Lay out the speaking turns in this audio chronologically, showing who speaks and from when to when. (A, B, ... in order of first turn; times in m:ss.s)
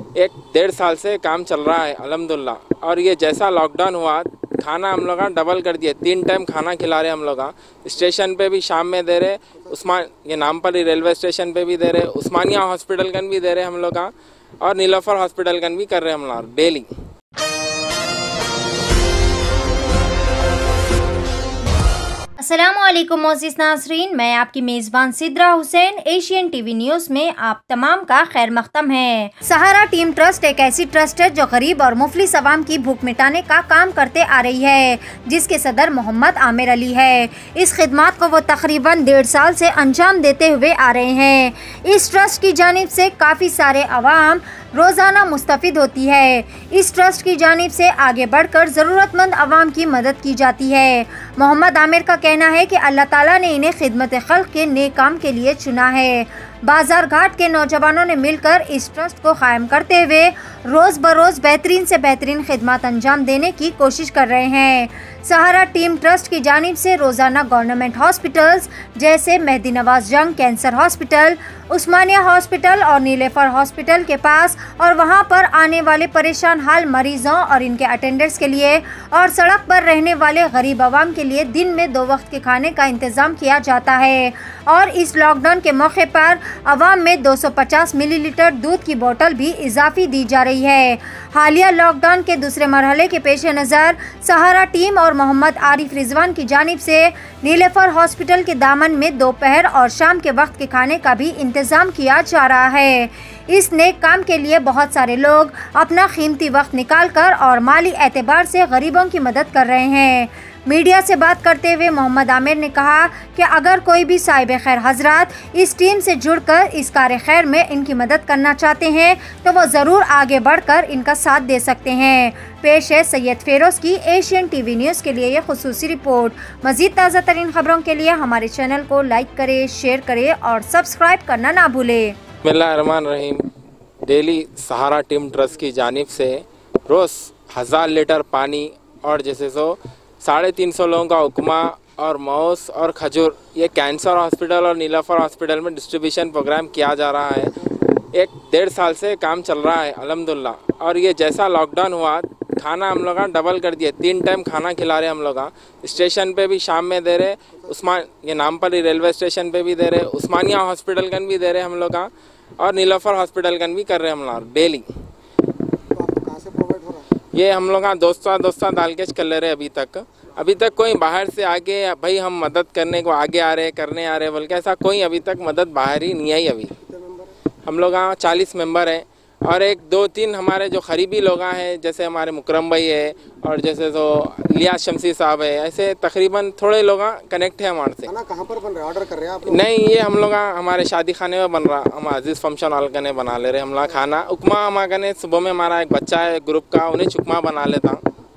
0:00.2-0:16.9 A
0:22.4-2:12.2 B
2:12.4-2:13.4 A
2:14.0-2:27.5 A
2:28.1-2:42.1 A
2:42.6-2:44.9 A
2:45.9-2:47.0 C
2:47.3-2:56.7 A
2:56.8-2:57.3 C
2:57.6-3:08.1 A
3:08.1-3:09.9 C
3:09.4-3:18.0 A